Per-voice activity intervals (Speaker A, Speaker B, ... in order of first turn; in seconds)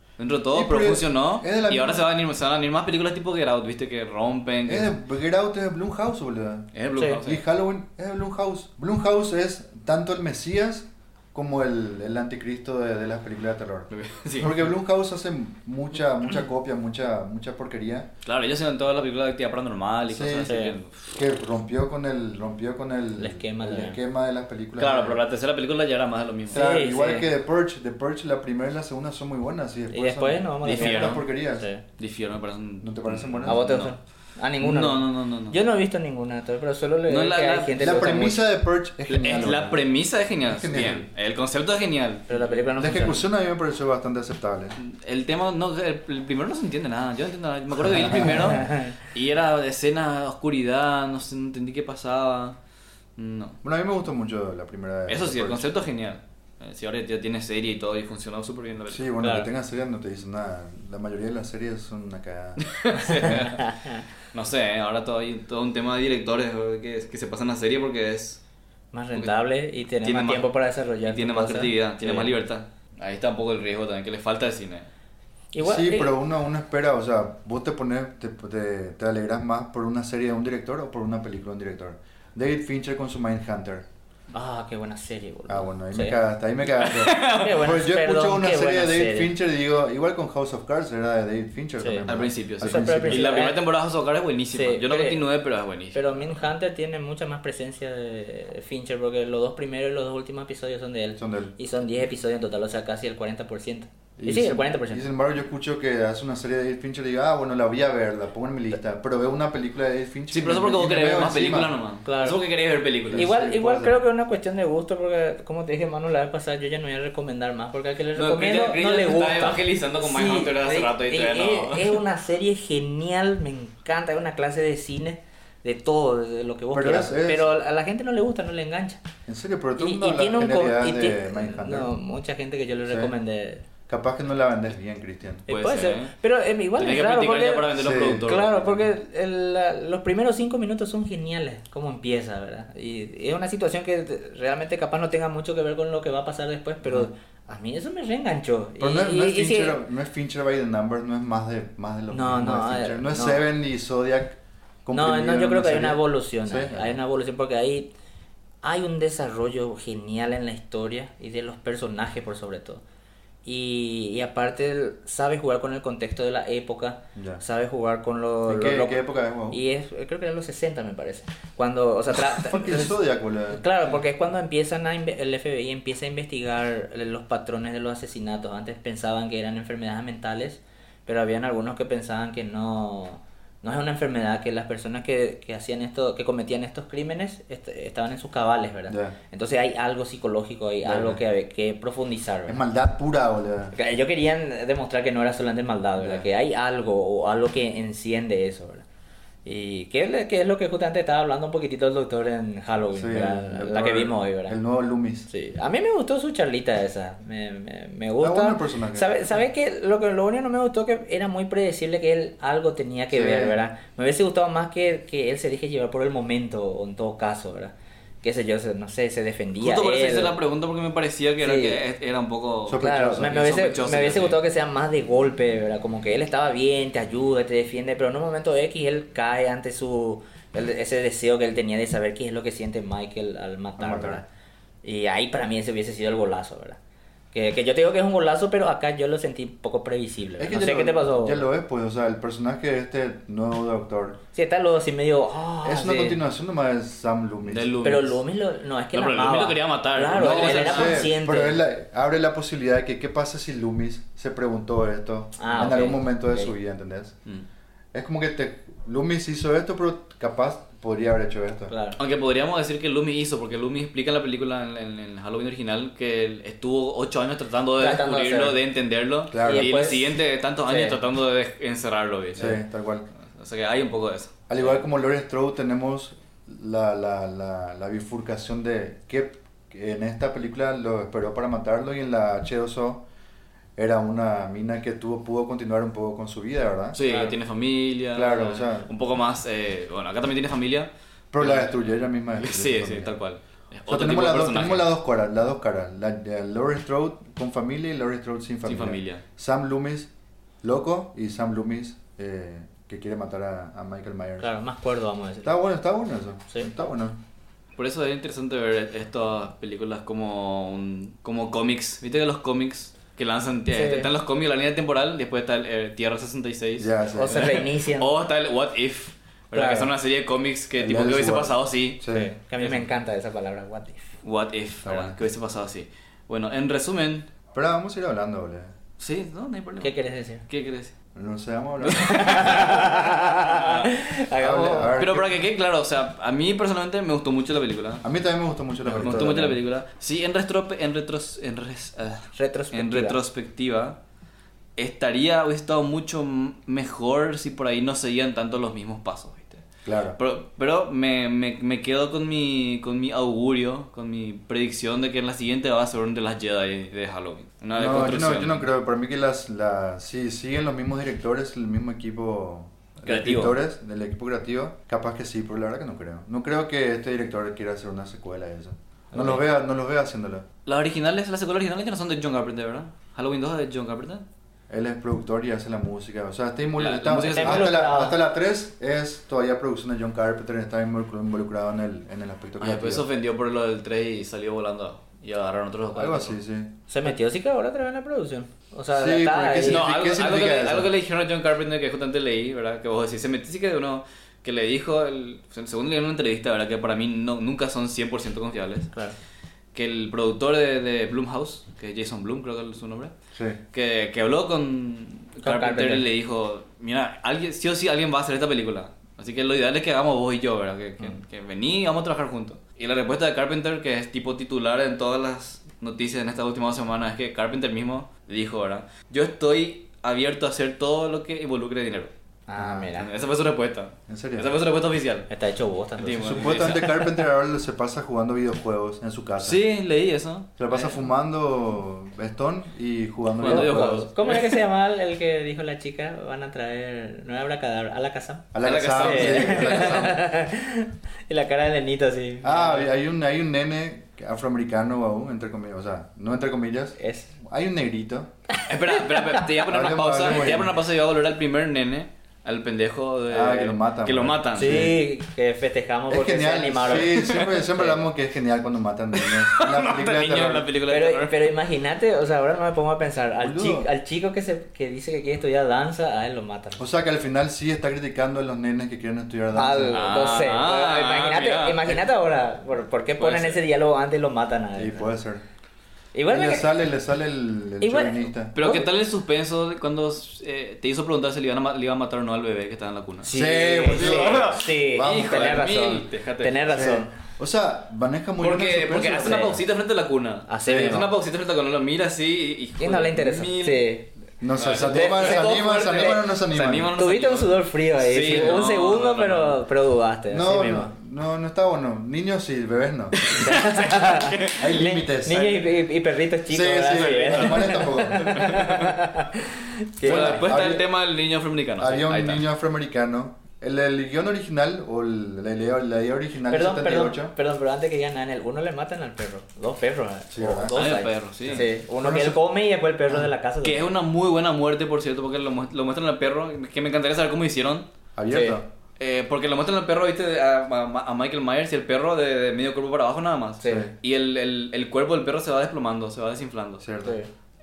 Speaker A: 0.2-4.9, 6.7-7.4, 13.9-14.6, 18.2-21.0, 24.8-26.6, 30.6-31.2, 32.0-34.0, 34.6-35.6, 37.1-38.0, 39.1-42.5, 44.8-52.6, 53.2-53.6, 55.1-59.1, 62.6-63.7, 64.3-68.4, 70.0-70.5, 71.0-74.9, 86.7-87.7, 92.0-96.4, 110.3-113.3, 118.1-122.0, 135.5-136.1, 136.8-138.8, 219.6-224.4, 247.4-248.2, 248.9-251.1, 262.0-272.6, 273.3-274.3, 286.9-291.7, 292.4-294.9, 298.6-299.2, 307.8-322.0, 322.6-322.8, 324.2-327.3, 329.0-329.9, 330.5-330.9, 331.8-333.9, 335.0-338.0, 338.9-344.0, 344.8-349.6, 350.2-358.7, 363.0-363.6, 369.1-369.4, 370.6-374.2, 376.8-377.8, 382.6-386.4, 389.6-398.9, 399.7-403.1, 403.7-422.1, 422.9-425.3, 426.0-427.0, 429.4-430.5, 433.4-434.6, 438.6-440.1, 448.7-454.9, 456.9-457.6, 459.1-461.5, 469.9-472.0, 473.2-473.6, 478.5-483.3, 483.9-486.7, 488.4-493.9, 494.6-499.6, 503.2-504.8, 507.0-509.0, 510.0-512.4, 520.7-521.6, 523.6-527.9, 529.0-536.8
Speaker B: 0.5-2.0, 4.7-6.7, 7.2-18.1, 20.1-20.6, 21.1-25.2, 26.5-31.7, 32.8-33.6, 37.8-39.8, 40.5-41.1, 42.8-44.8, 47.8-48.6, 53.6-55.7, 58.9-62.6, 75.6-83.8, 85.5-93.4, 101.2-101.5, 104.2-111.8, 113.1-114.0, 126.7-127.5, 129.3-131.9, 132.9-133.1, 133.9-135.4, 137.7-138.3, 148.8-157.0, 167.1-167.4, 168.4-169.6, 172.1-173.6, 188.9-189.2, 190.8-191.2, 192.5-193.7, 196.0-196.2, 202.9-205.3, 208.2-209.1, 213.1-213.5, 222.7-223.4, 233.8-234.2, 240.4-244.2, 245.6-247.8, 250.1-257.1, 257.9-261.7, 269.3-269.8, 272.4-273.1, 274.5-283.0, 283.8-287.0, 288.1-288.9, 291.3-293.1, 293.9-300.1, 300.6-304.5, 305.4-307.2, 316.8-317.5, 320.8-322.3, 324.8-325.1, 327.5-328.7, 331.1-332.6, 334.4-335.4, 338.0-339.5, 349.8-350.2, 357.8-370.4, 374.7-383.0, 385.9-386.7, 388.9-390.9, 403.3-403.6, 422.6-422.9, 424.1-424.5, 426.2-429.6, 430.6-434.1, 438.5-440.2, 442.4-448.3, 449.6-450.8, 453.3-454.9, 456.1-460.7, 463.4-463.9, 466.8-470.0, 474.8-475.4, 476.3-478.5, 483.3-485.7, 486.7-489.6, 494.4-496.9, 498.3-498.5, 500.3-503.3, 504.6-505.6, 506.5-508.6, 510.0-510.9, 511.8-517.3, 520.3-520.7, 521.4-522.4, 528.1-528.6, 533.6-533.9, 536.8-537.2
Speaker C: 20.4-20.7, 23.2-24.0, 26.5-27.3, 29.9-31.8, 33.4-38.4, 42.3-43.2, 59.2-59.5, 63.1-64.0, 68.9-72.3, 75.5-76.1, 84.3-86.2, 87.3-89.3, 91.8-92.0, 92.6-93.6, 94.5-95.2, 95.9-105.1, 112.0-112.4, 113.1-129.0, 129.8-133.6, 135.5-149.8, 152.1-153.4, 154.9-157.9, 158.6-162.8, 163.4-172.9, 173.5-192.6, 193.7-198.8, 199.4-204.6, 205.3-220.3, 221.4-221.8, 222.8-234.2, 234.8-236.8, 237.3-241.5, 244.3-246.2, 247.8-251.6, 255.4-256.5, 261.7-262.0, 267.8-268.6, 269.4-271.0, 287.0-287.3, 304.4-305.5, 313.7-314.1, 317.1-318.1, 319.5-319.9, 322.1-324.1, 329.8-330.4, 332.0-335.0, 339.0-339.5, 342.3-343.2, 377.2-378.2, 386.9-389.9, 405.4-406.1, 422.5-423.1, 425.3-427.1, 433.4-442.9, 447.0-447.3, 448.5-449.5, 454.5-458.0, 460.9-466.8, 469.5-475.1, 476.1-476.7, 477.8-478.9, 483.2-487.1, 490.5-491.1, 492.8-494.1, 494.8-496.1, 496.9-500.9, 503.3-510.5, 516.5-523.8, 528.3-528.6, 533.6-533.9, 537.0-537.3